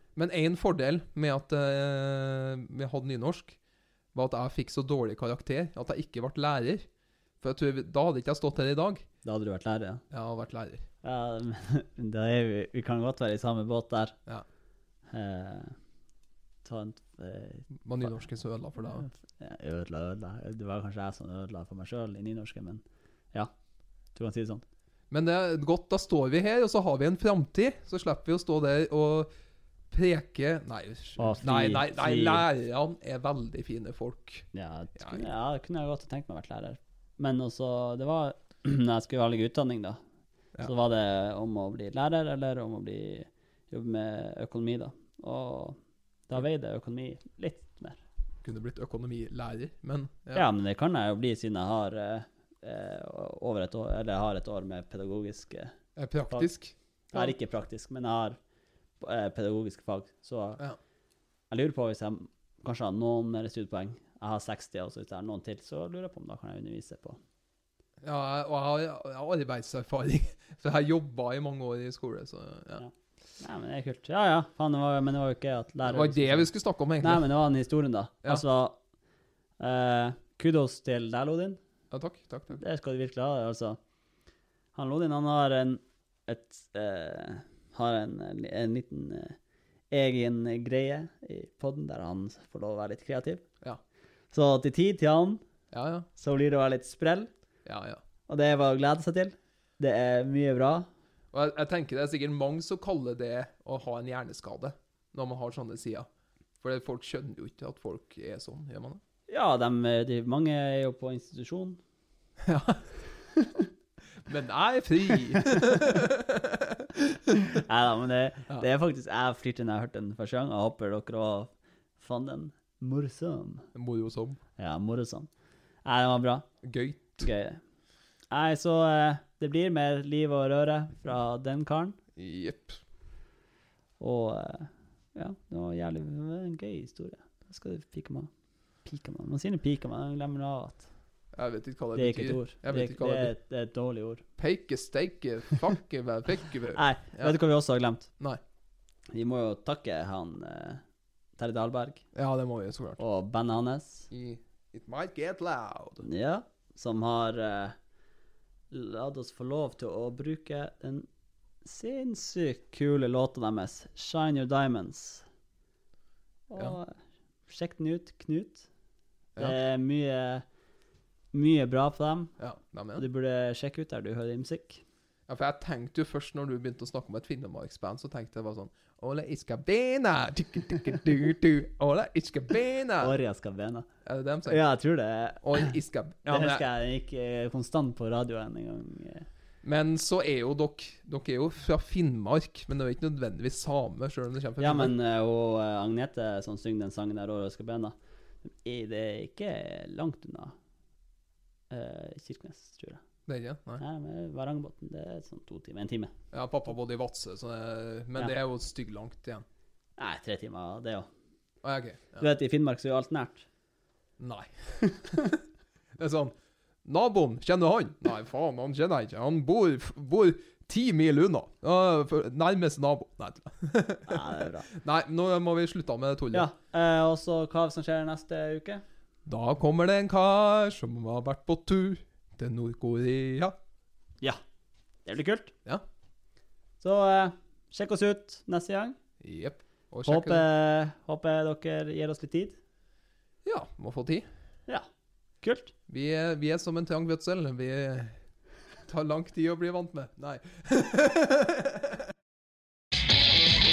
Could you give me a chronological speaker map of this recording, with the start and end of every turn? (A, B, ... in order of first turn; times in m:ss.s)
0:00.2-0:03.6 A
0:04.1-0:06.8 A
0:07.4-0:09.0 A
0:09.2-0:10.0 B
0:10.1-0:10.8 A
0:11.0-0:14.2 B
0:15.1-0:15.8 B
0:16.6-0:18.2 B
0:17.8-0:19.1 A
0:19.0-0:23.5 B
0:24.1-0:24.6 B
0:25.1-0:29.3 A
0:29.9-0:35.3 A
0:31.2-0:32.4 B
0:34.5-0:40.0 B
0:40.6-0:45.8 B
0:46.3-0:48.0 B
0:48.4-0:50.4 A
0:50.3-0:55.7 B
0:56.0-0:57.3 A
0:57.1-0:58.4 B
0:59.0-1:00.6 B
1:01.5-1:07.2 B
1:08.0-1:12.8 A
1:12.8-1:16.5 B
1:15.8-1:17.3 A
1:17.0-1:18.8 B
1:19.6-1:21.6 B
1:21.9-1:22.6 A
1:22.5-1:23.8 B
1:24.7-1:29.4 B
1:29.9-1:33.4 B
1:34.3-1:35.4 B
1:35.7-1:36.1 A
1:36.2-1:37.3 B
1:37.6-1:38.0 A
1:38.3-1:40.9 B
1:41.3-1:46.1 A
1:46.6-1:49.0 A
1:49.3-1:51.8 B
1:52.4-1:52.8 A
1:53.4-1:53.6 B
1:54.2-1:57.3 A
1:55.4-1:55.9 B
1:57.3-2:03.7 B
2:03.7-2:04.4 A
2:04.6-2:05.3 B
2:05.8-2:06.5 B
2:06.6-2:07.3 A
2:07.2-2:07.6 B
2:08.3-2:12.0 B
2:12.2-2:12.8 A
2:14.0-2:18.3 B
2:18.8-2:20.9 B
2:21.3-2:23.3 A
2:22.0-2:24.2 B
2:24.4-2:27.4 A
2:26.7-2:28.1 B
2:29.1-2:30.8 B
2:31.4-2:32.0 B
2:32.1-2:33.0 A
2:33.0-2:34.1 B
2:34.1-2:36.0 A
2:36.0-2:37.7 B
2:38.7-2:41.1 B
2:41.6-2:45.2 B
2:46.5-2:47.0 B
2:47.5-2:48.7 B
2:49.4-2:50.4 B
2:51.3-2:52.3 B
2:52.4-2:53.0 A
2:53.0-2:54.8 B
2:55.3-3:03.1 A
3:03.0-3:03.9 B
3:04.0-3:04.6 A
3:04.4-3:05.7 B
3:05.4-3:06.6 A
3:06.2-3:09.3 B
3:09.6-3:14.9 A
3:14.6-3:20.5 B
3:21.7-3:23.0 B
3:23.3-3:23.8 A
3:23.8-3:26.1 B
3:26.3-3:29.4 A
3:30.0-3:31.1 B
3:31.6-3:32.2 A
3:32.2-3:33.4 B
3:34.2-3:35.4 A
3:36.0-3:46.5 A
3:44.1-3:44.7 B
3:46.3-3:48.8 B
3:49.2-3:53.6 A
3:55.0-3:55.5 B
3:56.8-3:59.0 B
3:59.2-4:00.4 A
4:00.0-4:02.6 B
4:03.4-4:04.2 A
4:05.4-4:05.7 B
4:05.9-4:08.2 A
4:08.9-4:12.0 A